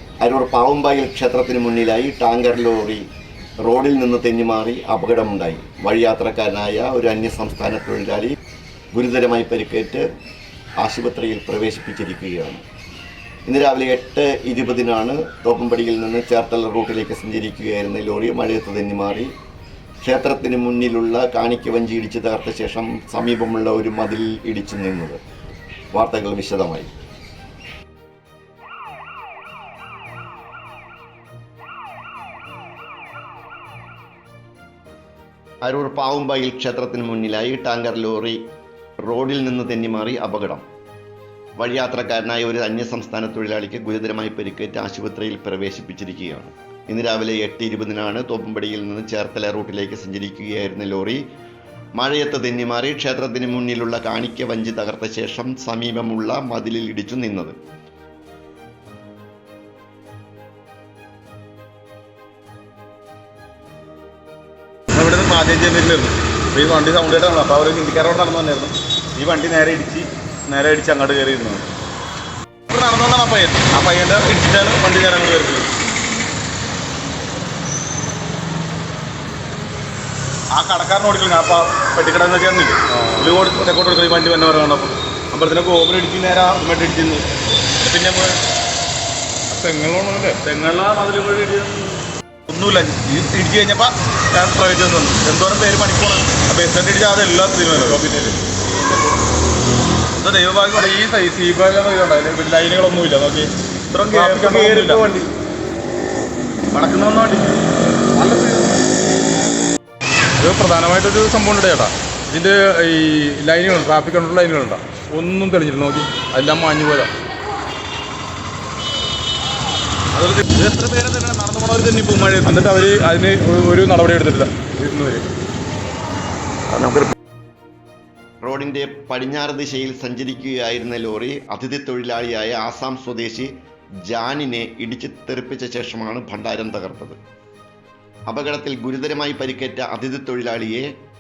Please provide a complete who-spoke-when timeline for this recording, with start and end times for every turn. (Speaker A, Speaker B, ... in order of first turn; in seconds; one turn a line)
Speaker A: 0.2-3.1
Speaker A: 3.6-8.3
Speaker A: 8.9-10.1
Speaker A: 10.8-12.6
Speaker A: 13.5-19.3
Speaker A: 20.0-25.2
Speaker A: 25.9-26.9
Speaker A: 35.6-38.5
Speaker A: 39.0-40.6
Speaker A: 41.6-51.2
Speaker A: 52.0-57.6
Speaker B: 64.9-71.7
Speaker B: 72.7-75.7
Speaker B: 80.5-87.3
Speaker C: 83.0-83.4
Speaker B: 87.8-88.4
Speaker C: 89.5-90.4
Speaker B: 90.4-98.0
Speaker C: 97.9-98.4
Speaker B: 100.2-101.0
Speaker C: 100.8-103.5
Speaker B: 103.9-105.2
Speaker C: 104.1-105.1
Speaker B: 106.7-107.6
Speaker C: 108.2-108.6
Speaker C: 110.4-117.1
Speaker B: 120.1-122.6
Speaker C: 122.5-125.3
Speaker A: 126.7-127.1
Speaker A: 128.4-133.5
Speaker A: 134.0-137.2
Speaker A: 138.3-140.9